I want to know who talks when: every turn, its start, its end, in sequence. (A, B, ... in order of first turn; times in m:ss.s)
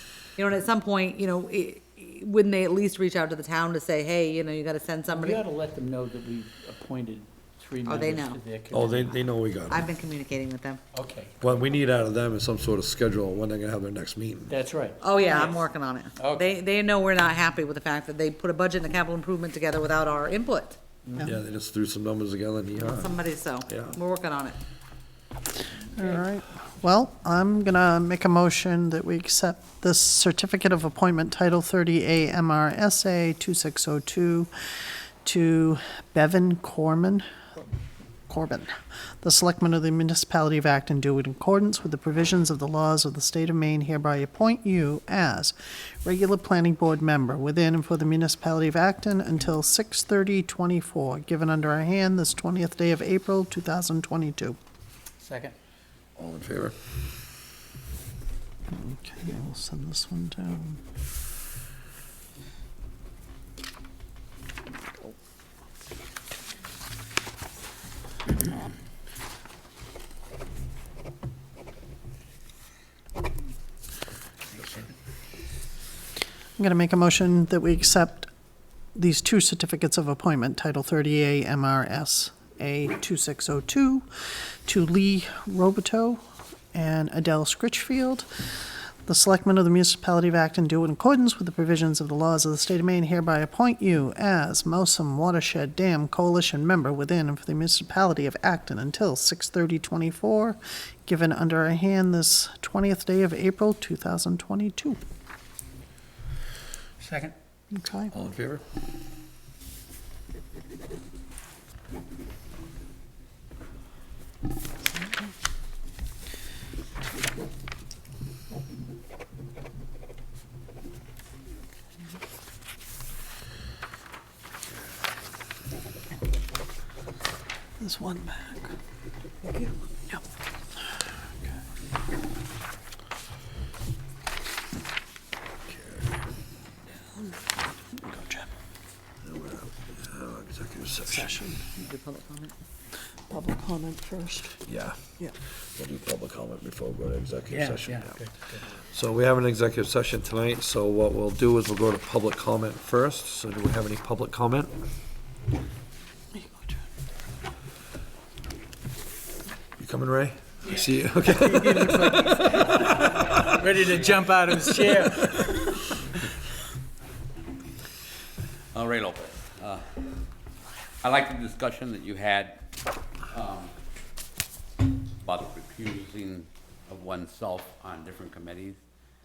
0:00.4-0:05.4 A
0:05.2-0:09.1 B
0:07.8-0:08.4 A
0:08.7-0:09.9 C
0:09.7-0:10.8 A
0:10.9-0:11.5 B
0:11.4-0:14.6 C
0:14.5-0:15.6 B
0:15.0-0:20.8 A
0:16.2-0:16.4 B
0:21.0-0:21.3 B
0:21.2-0:24.0 C
0:22.8-0:24.6 A
0:25.9-0:34.5 D
0:35.2-0:37.6 D
0:38.3-0:54.6 D
0:55.2-0:55.5 E
0:56.2-0:56.7 C
0:58.7-1:00.8 D
1:16.6-1:18.3 D
1:18.9-1:24.1 D
1:24.6-1:26.2 D
1:26.7-1:28.3 D
1:29.0-1:45.0 D
1:47.0-1:47.3 B
1:47.7-1:48.1 D
1:48.1-1:48.6 C
2:07.8-2:08.7 D
2:09.5-2:10.2 D
2:15.7-2:16.0 C
2:17.4-2:18.5 D
2:19.2-2:21.4 C
2:21.1-2:21.6 D
2:21.7-2:22.5 A
2:23.3-2:24.5 D
2:24.6-2:25.0 C
2:25.8-2:28.2 C
2:27.5-2:28.7 B
2:28.8-2:34.7 C
2:39.8-2:45.0 C
2:41.9-2:45.3 B
2:43.6-2:44.3 E
2:48.7-2:49.8 E
2:51.0-2:52.5 E
2:53.3-2:53.7 E
2:55.2-2:58.8 E